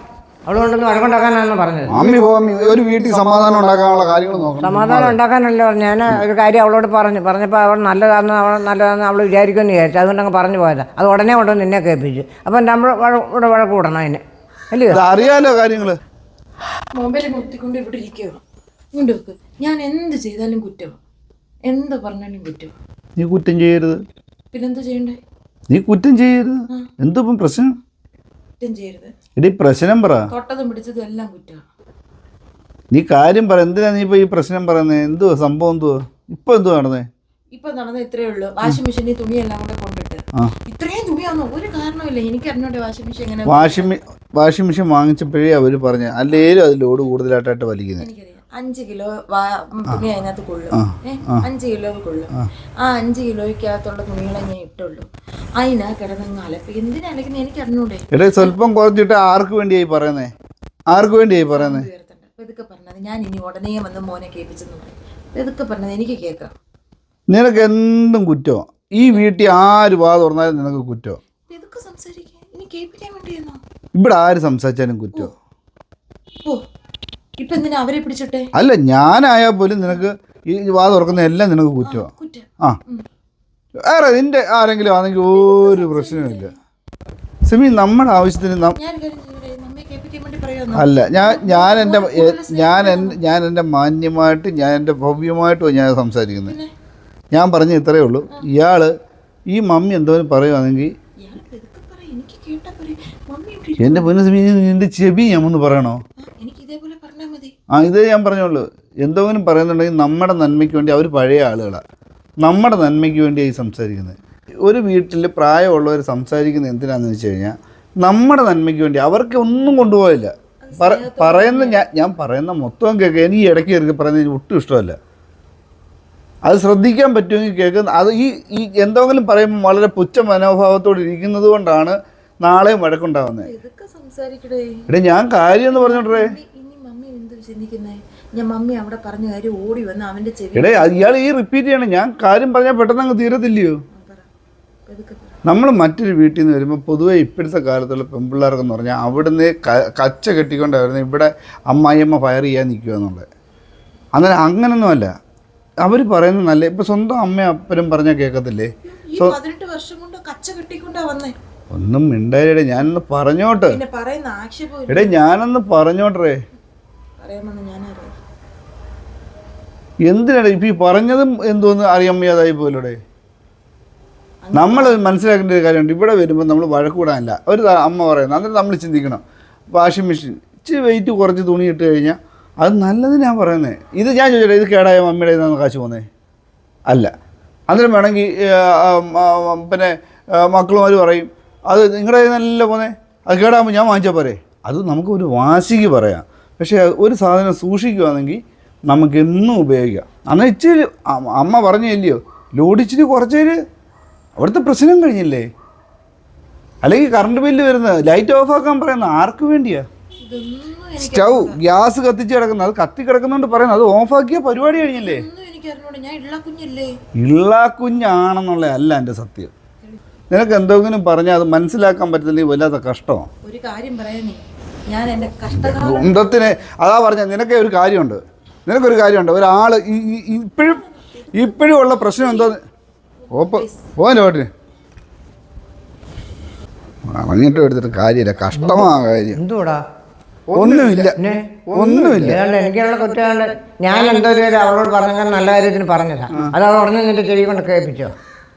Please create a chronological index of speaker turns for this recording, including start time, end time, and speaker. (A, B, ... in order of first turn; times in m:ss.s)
0:00.4-0:01.9 A
0:01.9-0:05.2 B
0:04.6-0:15.0 A
0:14.9-0:16.0 B
0:17.0-0:18.4 C
0:18.9-0:21.0 C
0:21.6-0:22.7 C
0:23.2-0:24.0 B
0:24.5-0:25.2 C
0:25.7-0:27.8 B
0:28.6-0:29.1 C
0:29.4-0:30.3 B
0:30.3-0:31.6 C
0:32.9-0:37.1 B
0:37.5-0:44.0 C
0:43.4-0:48.1 B
0:48.0-0:58.5 C
0:50.7-0:51.4 B
0:58.1-1:00.3 B
1:00.9-1:01.9 B
1:01.4-1:06.5 C
1:07.3-1:11.2 B
1:11.5-1:13.6 C
1:13.9-1:15.3 B
1:17.4-1:18.5 C
1:18.5-1:22.1 B
1:21.8-1:23.0 C
1:23.8-1:26.5 B
1:25.3-1:26.6 C
1:27.5-1:28.8 B
1:28.7-1:33.2 C
1:30.7-1:36.6 B
1:37.3-1:38.9 B
1:39.5-1:40.9 B
1:41.2-1:44.1 C
1:43.8-1:46.0 B
1:46.2-1:47.5 C
1:47.7-1:51.8 B
1:52.4-2:05.0 B
2:00.6-2:01.9 C
2:06.4-2:13.5 B
2:13.4-2:14.9 C
2:14.9-2:16.3 B
2:15.7-2:21.1 C
2:20.5-2:23.8 B
2:23.9-2:24.3 C
2:24.9-2:25.4 C
2:25.4-2:33.3 B
2:34.2-2:35.1 B
2:35.8-2:39.4 B
2:38.8-2:41.3 C
2:41.7-2:43.8 B
2:43.7-2:45.2 C
2:44.9-2:46.4 B
2:47.2-2:48.2 C
2:50.0-2:53.0 B
2:54.4-2:55.1 C
2:54.5-3:06.1 B
3:07.7-3:23.6 B
3:24.4-3:25.5 B
3:26.8-3:29.8 B
3:30.2-3:31.6 C
3:31.0-3:35.2 B
3:35.0-3:37.0 C
3:37.2-3:39.5 B
3:40.3-3:43.3 B
3:43.4-3:46.4 C
3:45.5-3:50.8 B
3:50.6-3:52.6 C
3:51.3-3:52.6 B
3:53.2-3:53.9 C
3:53.3-3:54.5 B
3:57.1-3:59.4 B
3:58.5-3:59.8 A
4:00.5-4:01.2 B
4:00.6-4:08.1 A
4:01.7-4:02.4 B